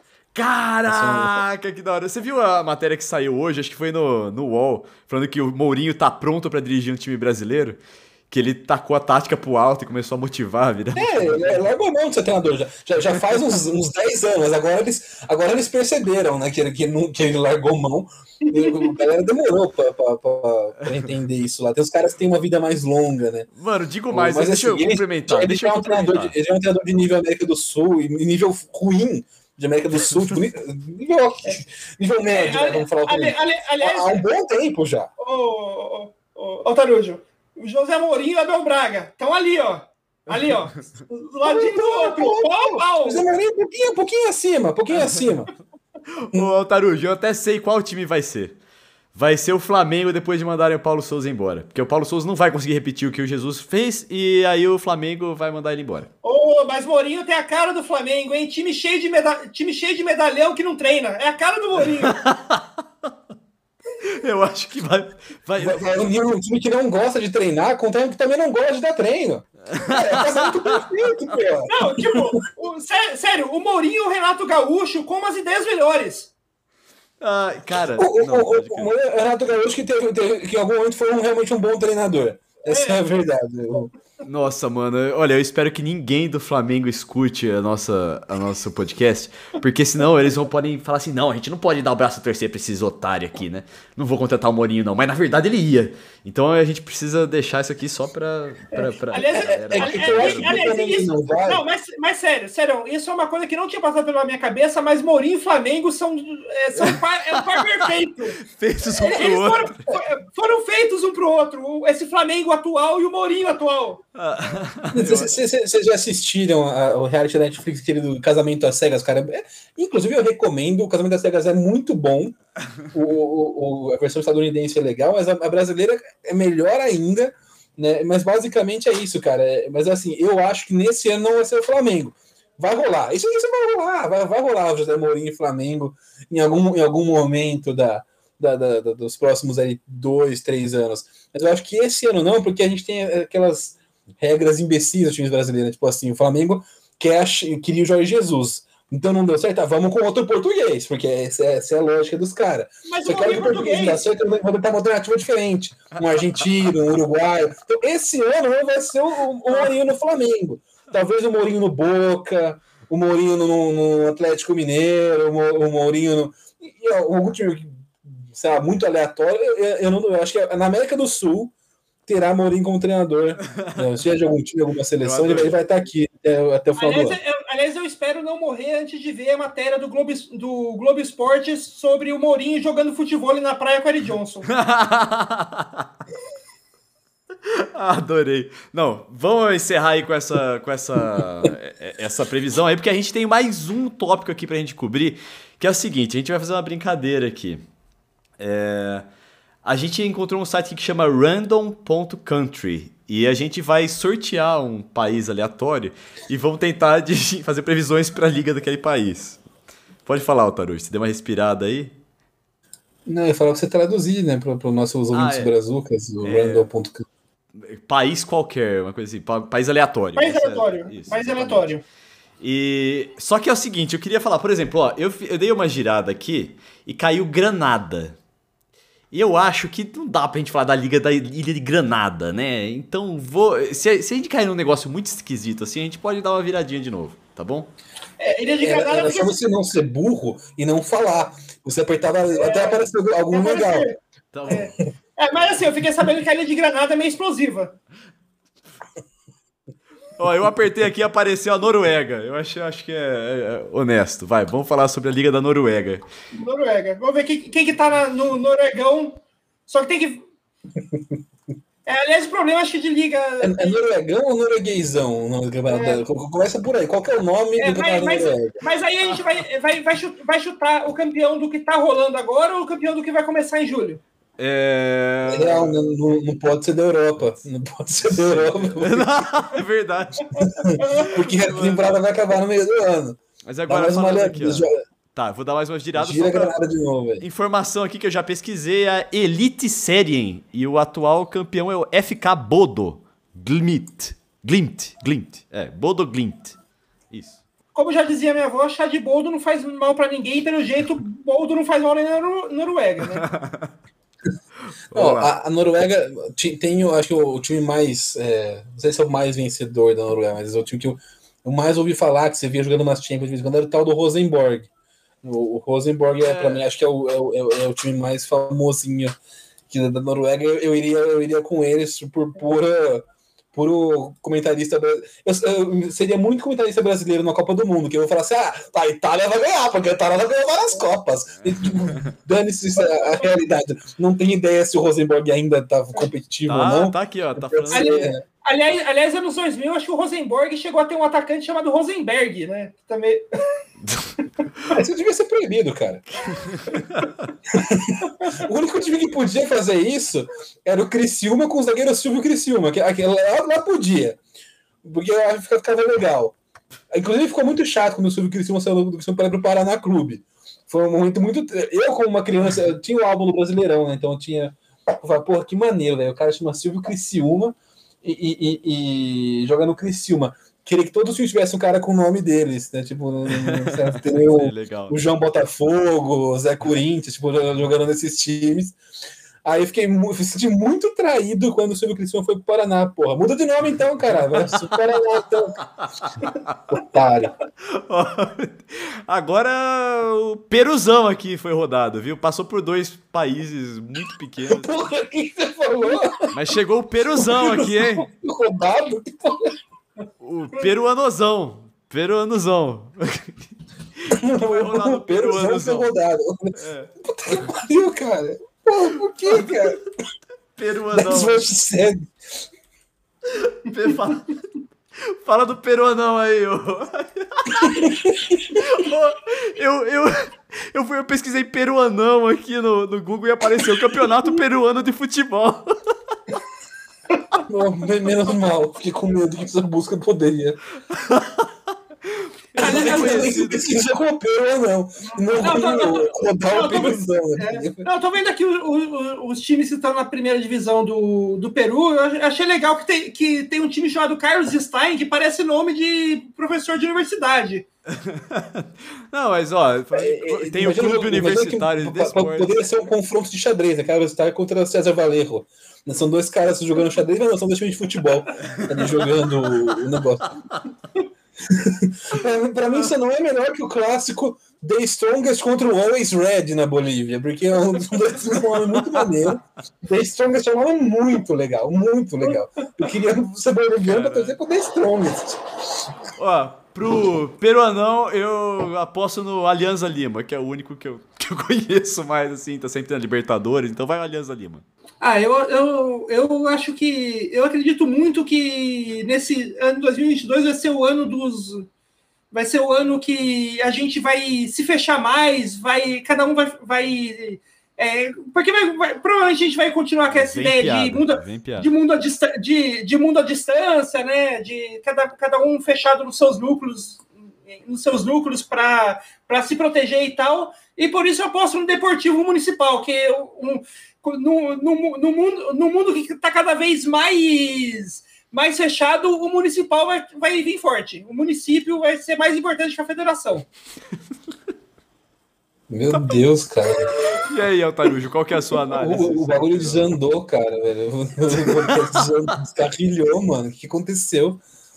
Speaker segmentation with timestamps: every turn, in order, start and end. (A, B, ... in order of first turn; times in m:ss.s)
0:00.3-0:11.6 A
0:00.9-0:01.4 B
0:10.9-0:23.5 B
0:23.5-0:26.3 A
0:24.1-0:35.1 B
0:32.3-0:34.2 C
0:35.2-0:43.2 C
0:41.4-0:45.5 B
0:44.9-0:45.2 A
0:46.2-0:48.6 A
0:49.1-0:56.1 A
0:56.2-1:02.2 C
1:02.0-1:02.6 A
1:04.0-1:05.8 A
1:05.6-1:12.2 B
1:09.7-1:10.9 A
1:11.7-1:16.3 C
1:17.2-1:18.9 A
1:17.9-1:23.9 B
1:22.7-1:23.0 C
1:24.2-1:40.7 A
1:38.7-1:54.0 C
1:39.3-1:41.6 B
1:46.8-1:47.8 A
1:48.4-1:49.8 A
1:54.1-1:55.4 A
1:54.9-2:02.4 B
2:02.9-2:51.5 B
2:32.9-2:34.0 C
2:52.0-2:57.2 B
2:53.6-2:53.8 A
2:55.0-2:55.6 A
2:56.8-3:04.5 C
3:04.5-3:05.8 A
3:07.5-3:17.6 A
3:18.4-3:19.0 A
3:19.6-3:29.4 A
3:30.0-3:31.9 A
3:33.1-3:37.0 B
3:35.1-3:35.5 A
3:36.2-3:36.7 A
3:37.5-3:41.7 A
3:40.2-3:41.8 C
3:42.4-3:48.2 A
3:49.1-3:57.7 A
3:58.2-3:59.4 C
3:58.6-4:03.9 B
4:02.4-4:04.0 C
4:04.3-4:04.7 A
4:04.5-4:07.7 C
4:10.2-4:16.0 A
4:16.3-4:20.2 C
4:21.8-4:23.8 C
4:23.4-4:28.6 B
4:25.7-4:26.0 C
4:27.6-4:34.0 C
4:34.4-4:35.7 A
4:35.2-4:39.3 B
4:38.1-4:40.3 A
4:40.3-4:41.1 C
4:40.4-4:44.8 B
4:41.1-4:42.0 A
4:43.4-4:46.6 A
4:45.9-4:47.2 B
4:47.2-4:56.6 A
4:57.1-4:57.4 A
4:57.7-5:03.2 C
5:03.1-5:03.7 A
5:04.9-5:05.3 A
5:04.9-5:14.7 B
5:15.2-5:19.1 B
5:16.2-5:16.6 A
5:19.7-5:38.2 B
5:31.5-5:32.1 A
5:36.5-5:38.1 A
5:37.7-5:43.2 C
5:43.8-5:44.1 A
5:44.7-5:46.0 B
5:46.3-5:47.1 A
5:47.5-5:54.2 B
5:54.8-5:56.4 B
5:56.9-6:18.8 B
6:13.3-6:15.0 A
6:19.4-6:25.6 B
6:24.4-6:24.8 A
6:25.8-6:26.7 A
6:26.7-6:27.3 B
6:27.7-6:34.7 A
6:34.4-6:36.3 B
6:36.3-6:38.1 A
6:37.2-6:39.6 B
6:40.2-6:45.9 A
6:44.1-6:49.8 B
6:46.6-6:46.9 A
6:49.2-6:49.8 A
6:50.6-6:51.5 A
6:50.9-6:52.1 B
6:53.3-6:54.4 A
6:55.0-6:57.9 A
6:57.7-6:58.6 B
6:58.5-7:05.8 A
7:07.5-7:10.6 B
7:10.9-7:11.5 A
7:12.1-7:13.6 A
7:12.6-7:13.3 C
7:12.6-7:17.9 B
7:15.4-7:27.6 C
7:27.9-7:32.6 A
7:29.9-7:40.3 B
7:38.4-7:39.1 A
7:41.4-7:55.9 B
7:53.8-7:54.3 A
7:56.2-8:04.6 A
8:05.0-8:11.7 C
8:12.3-8:43.5 C
8:20.1-8:21.7 A
8:45.7-8:47.0 B
8:47.1-8:50.0 A
8:48.7-8:54.4 B
8:51.4-8:52.1 A